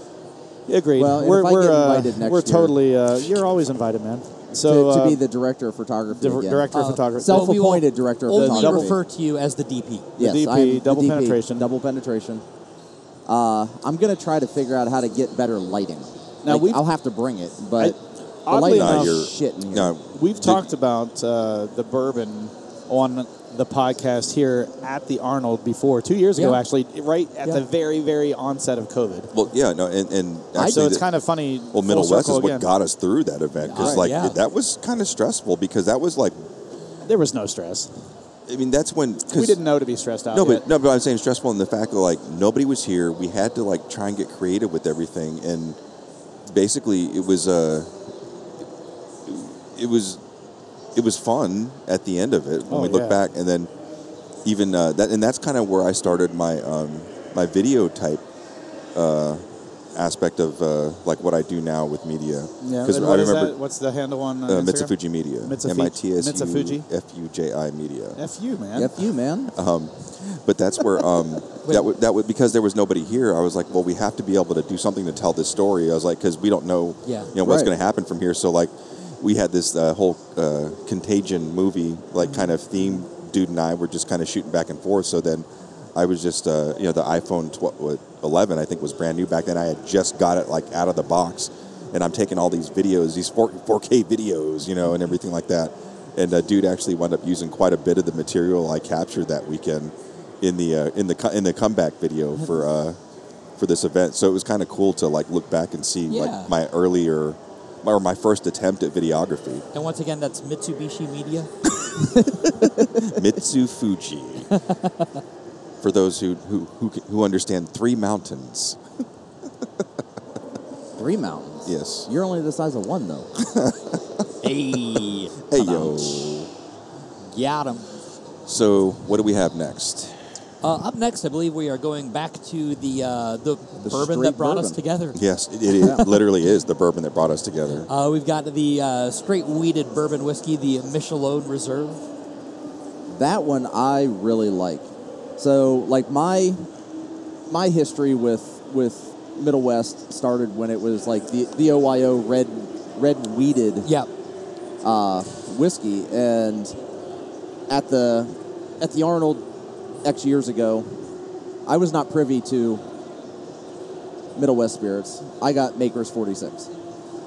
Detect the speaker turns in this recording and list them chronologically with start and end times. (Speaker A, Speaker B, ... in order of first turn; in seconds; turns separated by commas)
Speaker A: 0.7-5.2, Speaker B: 1.0-2.8, Speaker B: 4.6-9.0, Speaker A: 6.1-8.9, Speaker C: 6.7-10.1, Speaker B: 10.2-12.4, Speaker A: 10.2-11.7, Speaker B: 13.2-18.0, Speaker A: 16.4-16.8, Speaker A: 17.8-19.3, Speaker B: 18.5-19.9, Speaker D: 18.7-20.7, Speaker A: 20.0-29.3, Speaker C: 26.3-26.6, Speaker D: 29.3-31.0, Speaker B: 30.5-30.9, Speaker A: 30.6-32.7, Speaker D: 31.7-36.5, Speaker C: 33.6-34.4, Speaker A: 37.0-37.9, Speaker D: 38.5-39.6, Speaker A: 39.3-40.6, Speaker D: 40.3-45.8, Speaker D: 46.5-47.9, Speaker D: 49.2-50.2, Speaker D: 50.9-53.7, Speaker A: 52.7-53.2, Speaker D: 54.4-58.2, Speaker D: 58.9-59.4, Speaker D: 59.9-63.5, Speaker A: 62.6-66.8, Speaker D: 64.5-68.2, Speaker A: 68.2-69.0, Speaker B: 68.7-69.5, Speaker D: 69.5-103.0, Speaker C: 71.6-71.9, Speaker C: 77.0-77.3, Speaker B: 77.4-77.7, Speaker D: 103.6-109.6, Speaker C: 106.1-106.5, Speaker C: 109.7-111.5, Speaker B: 112.2-113.0, Speaker D: 113.0-114.5, Speaker C: 114.5-115.1, Speaker D: 115.8-118.8, Speaker B: 121.0-123.3, Speaker D: 121.7-122.1, Speaker D: 123.4-124.2, Speaker C: 124.4-126.5, Speaker D: 125.5-126.5, Speaker C: 127.3-127.9, Speaker D: 128.4-130.2, Speaker C: 130.6-135.2, Speaker B: 133.8-134.8, Speaker D: 135.1-137.9, Speaker B: 135.8-136.1, Speaker C: 137.9-142.0, Speaker B: 143.1-144.8, Speaker B: 145.4-146.6, Speaker B: 147.5-153.9, Speaker B: 154.8-156.8, Speaker B: 157.7-159.4, Speaker B: 160.0-160.9, Speaker B: 161.7-162.8, Speaker B: 164.3-166.7